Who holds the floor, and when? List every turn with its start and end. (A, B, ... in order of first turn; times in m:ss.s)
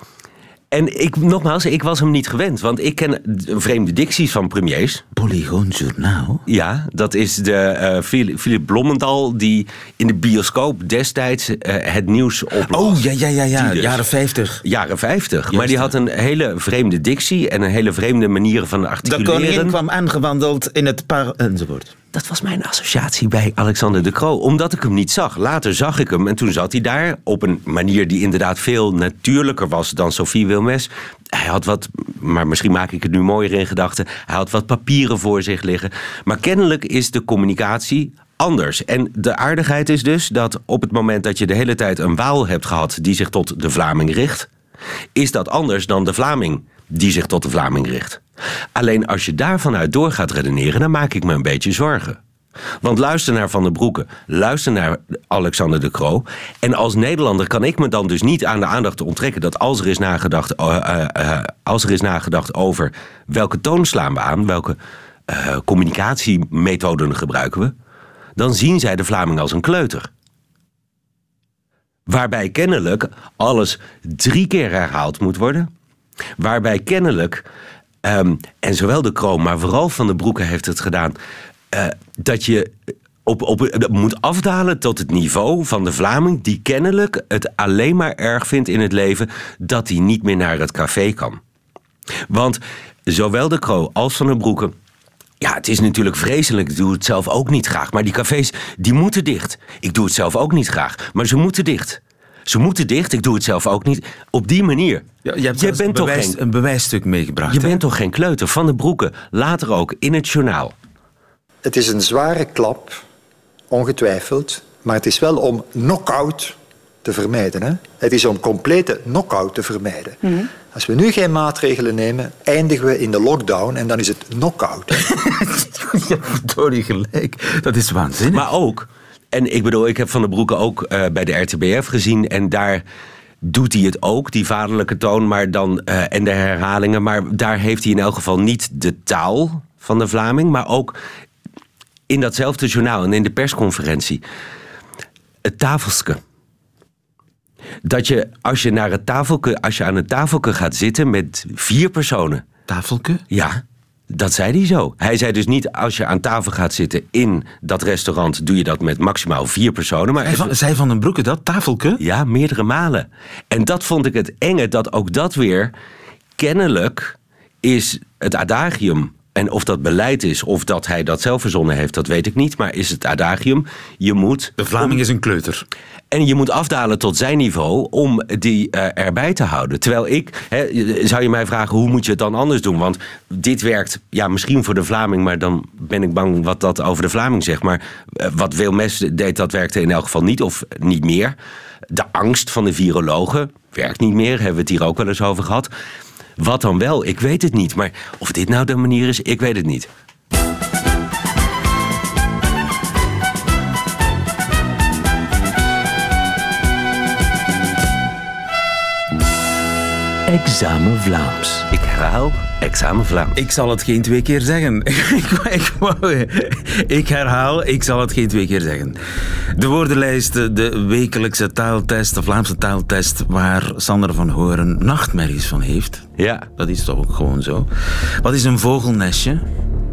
0:00.7-0:05.0 A
0:05.1-0:06.4 B
0:06.5-0:14.0 A
0:12.7-0:14.6 B
0:14.6-0:19.8 A
0:15.5-0:15.9 B
0:19.0-0:21.9 B
0:22.1-0:44.5 A
0:45.2-0:48.2 A
0:48.8-0:52.2 A
0:52.8-1:04.8 A
1:05.3-1:07.7 A
1:08.4-1:10.1 A
1:12.1-1:15.7 A
1:16.4-1:17.4 A
1:18.0-1:21.2 A
1:21.7-1:22.7 A
1:23.2-1:31.4 A
1:32.3-1:34.7 A
1:35.4-1:46.4 A
1:45.2-1:47.8 B
1:47.5-1:50.7 A
1:51.6-1:53.0 C
1:53.7-2:04.9 C
2:05.0-2:08.5 B
2:08.3-2:12.8 A
2:13.4-2:21.0 A
2:22.1-2:24.2 A
2:25.4-2:26.2 A
2:27.8-2:32.4 A
2:32.7-2:33.2 B
2:33.3-2:40.5 A
2:40.2-2:42.0 B
2:42.0-2:45.7 A
2:46.4-2:55.0 A
2:54.6-2:55.6 B
2:56.1-3:11.3 A
3:11.9-3:15.7 A
3:16.4-3:19.9 A
3:30.3-3:31.7 B
3:31.7-3:33.4 A
3:33.3-3:39.0 B
3:39.5-3:49.4 B
3:46.2-3:46.4 A